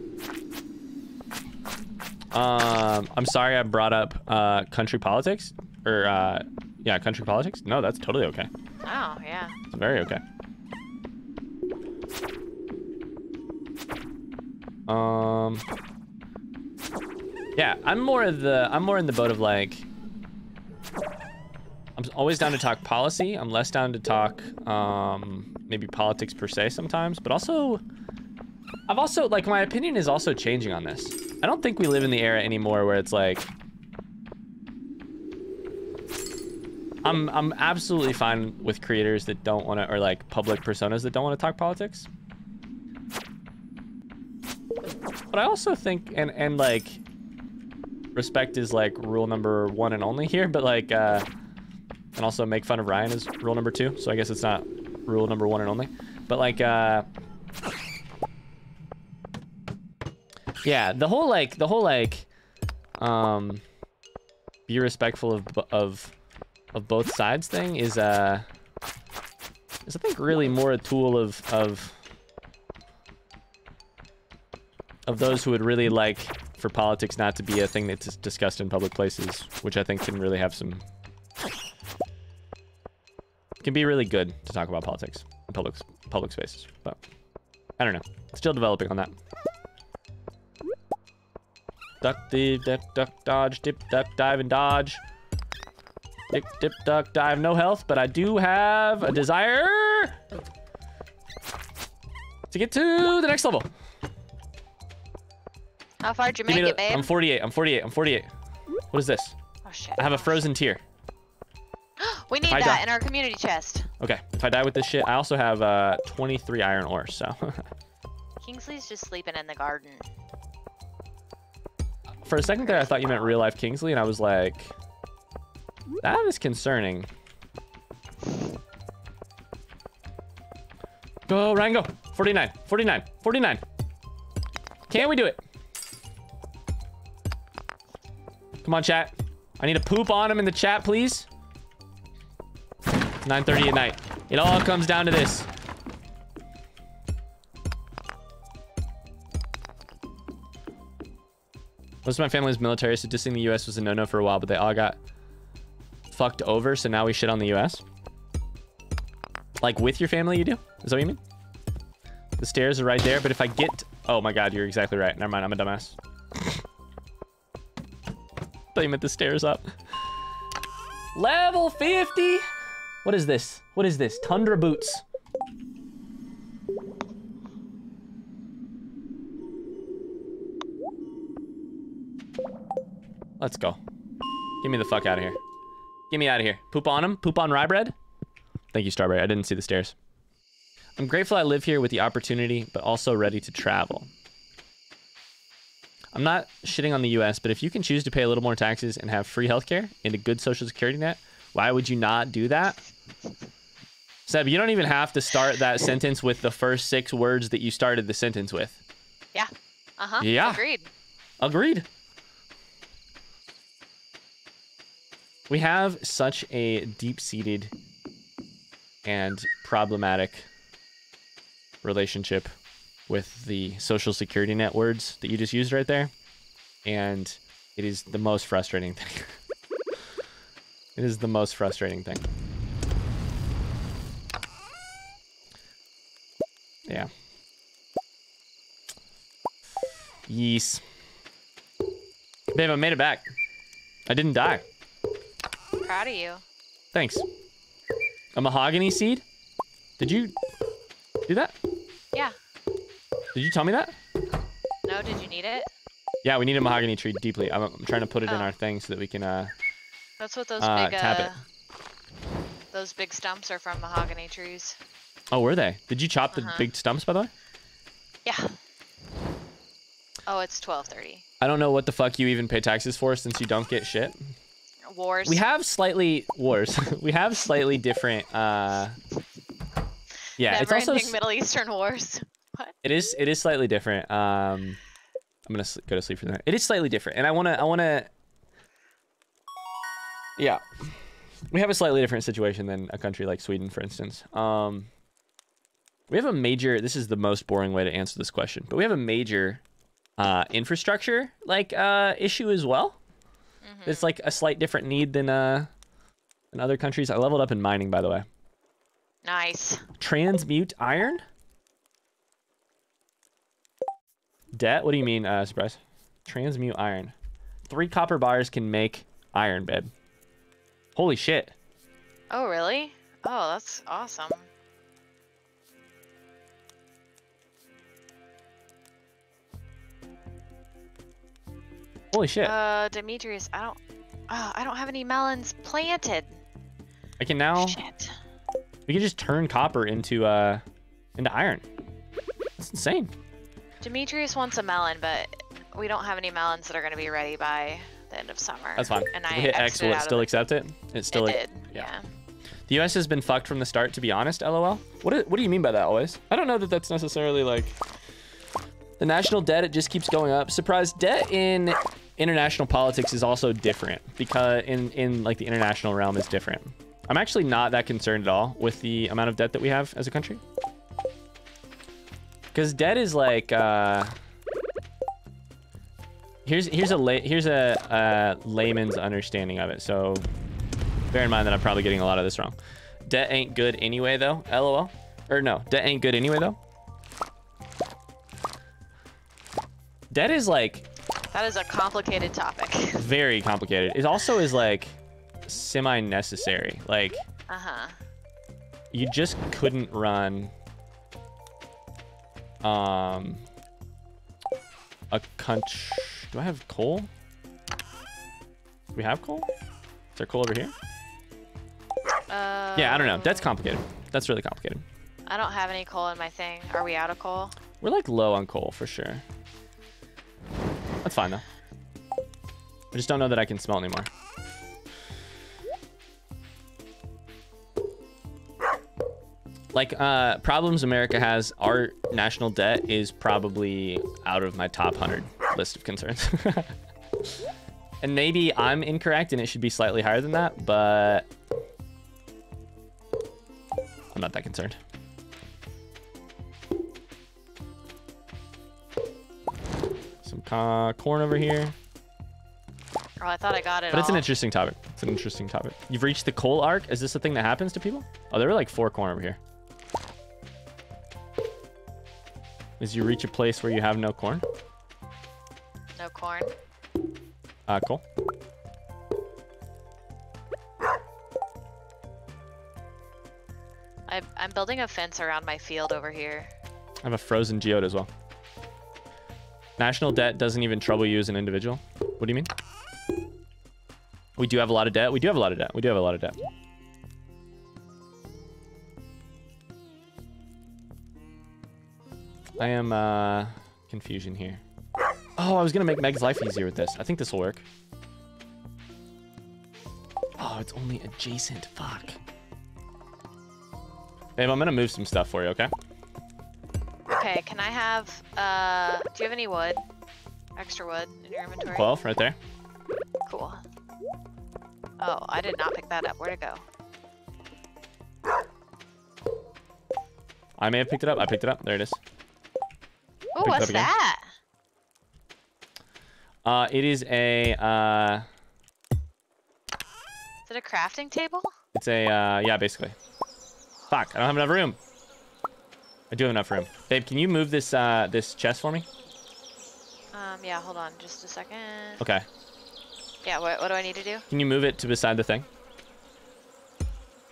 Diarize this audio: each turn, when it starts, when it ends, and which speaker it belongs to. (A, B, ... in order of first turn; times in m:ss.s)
0:02.3-0:08.5 A
0:08.8-0:09.6 B
0:09.7-0:10.2 A
0:14.9-0:15.6 A
0:17.6-0:19.9 A
0:22.0-0:27.8 A
0:28.9-0:33.5 A
0:37.0-0:42.1 A
0:45.3-0:47.0 A
0:48.2-0:51.3 A
0:52.2-0:57.1 A
1:00.6-1:02.3 A
1:03.0-1:03.6 A
1:04.7-1:06.1 A
1:06.7-1:08.5 A
1:09.9-1:12.0 A
1:15.1-1:20.8 A
1:23.6-1:27.0 A
1:27.8-1:29.1 A
1:32.0-1:35.0 A
1:36.3-1:40.2 A
1:42.5-1:43.7 A
1:46.0-1:47.1 B
1:46.5-1:48.3 A
1:48.9-1:49.4 A
1:49.6-1:50.5 B
1:50.0-1:50.8 A
1:52.0-1:53.9 B
1:52.5-1:52.8 A
1:54.0-1:57.7 A
1:58.4-2:00.1 B
2:02.3-2:04.7 A
2:02.6-2:03.4 B
2:06.0-2:07.1 A
2:11.3-2:13.6 A
2:14.9-2:15.4 A
2:18.6-2:21.3 A
2:23.2-2:25.5 A
2:32.0-2:35.0 A
2:36.1-2:37.8 A
2:39.6-2:41.2 A
2:42.4-2:46.6 A
2:48.8-2:49.6 A
2:51.2-2:52.4 A
2:53.0-2:55.0 A
3:03.4-3:03.8 A
3:04.6-3:05.4 A
3:06.1-3:08.0 A
3:08.7-3:10.0 A
3:11.0-3:14.1 A
3:16.1-3:22.8 A
3:24.3-3:28.8 A
3:29.3-3:30.9 B
3:30.2-3:30.6 A
3:31.4-3:31.9 A
3:35.5-3:37.7 A
3:39.0-3:40.5 A
3:41.8-3:42.5 A
3:43.1-3:46.1 A
3:46.8-3:49.4 A
3:51.0-3:52.3 A
4:00.3-4:00.8 A
4:02.6-4:03.2 A
4:04.1-4:04.7 A
4:05.8-4:06.4 B
4:06.9-4:07.2 A
4:08.4-4:09.2 A
4:10.0-4:10.4 A
4:11.3-4:11.6 A
4:13.4-4:14.0 A
4:14.9-4:15.7 B
4:16.2-4:19.5 A
4:20.2-4:21.4 B
4:20.6-4:21.4 A
4:22.7-4:24.8 B
4:25.3-4:27.3 A
4:26.3-4:26.7 B
4:28.2-4:28.6 B
4:30.3-4:31.2 B
4:31.4-4:34.2 A
4:34.9-4:35.4 B
4:35.3-4:39.0 A
4:40.4-4:41.2 A
4:40.4-4:42.7 B
4:42.8-4:44.8 A
4:45.5-4:48.1 A
4:50.4-4:50.6 A
4:51.5-4:54.9 A
4:56.1-4:59.6 A
5:00.2-5:03.0 A
5:03.6-5:04.1 B
5:03.9-5:05.7 A
5:06.5-5:08.3 A
5:09.2-5:09.8 B
5:10.0-5:11.2 A
5:14.5-5:17.1 A
5:17.7-5:19.9 A
5:21.0-5:21.6 A
5:22.3-5:24.5 B
5:32.1-5:32.6 A
5:32.4-5:33.8 B
5:34.3-5:36.4 B
5:37.2-5:37.8 A
5:37.6-5:38.2 B
5:38.9-5:40.6 A
5:41.2-5:41.6 A
5:42.6-5:43.1 A
5:43.8-5:50.4 B
5:48.8-5:51.9 A
5:51.1-5:52.0 B
5:52.7-5:57.8 A
5:59.0-6:10.4 A
6:12.5-6:14.2 A
6:16.5-6:20.3 A
6:21.1-6:26.6 A
6:30.1-6:30.8 A
6:31.3-6:33.0 B
6:33.0-6:37.2 A
6:37.5-6:38.0 B
6:38.9-6:40.5 A
6:42.6-6:43.4 A
6:45.1-6:47.1 A
6:49.0-6:49.5 A
6:50.2-6:50.7 A
6:52.3-6:53.6 B
6:52.8-6:54.8 A
6:55.3-6:57.6 B
6:57.8-6:59.2 A
7:01.0-7:01.4 A
7:02.9-7:04.1 A
7:09.7-7:16.7 A
7:18.0-7:21.3 A
7:24.1-7:24.8 A
7:30.2-7:31.8 A
7:33.2-7:34.3 B
7:33.9-7:39.4 A
7:42.8-7:44.4 A
7:46.0-7:46.5 B
7:47.7-7:48.0 A
7:54.1-7:56.5 B
7:57.0-7:58.1 A
7:59.8-8:02.5 A
8:04.4-8:06.4 A
8:12.6-8:14.6 A
8:15.4-8:17.6 A
8:20.4-8:22.2 A
8:24.4-8:25.7 A
8:27.1-8:29.8 B
8:30.6-8:31.9 B
8:31.7-8:32.4 A
8:33.3-8:33.6 B
8:35.0-8:36.6 B
8:40.6-8:42.0 A
8:43.4-8:44.2 B
8:43.4-8:43.9 A
8:46.4-8:48.3 A
8:50.5-8:51.5 B
8:51.7-8:53.0 A
8:53.9-8:54.8 A
8:56.1-8:58.9 A
9:00.1-9:02.0 B
9:02.0-9:02.3 A
9:03.2-9:04.3 B
9:04.3-9:05.5 A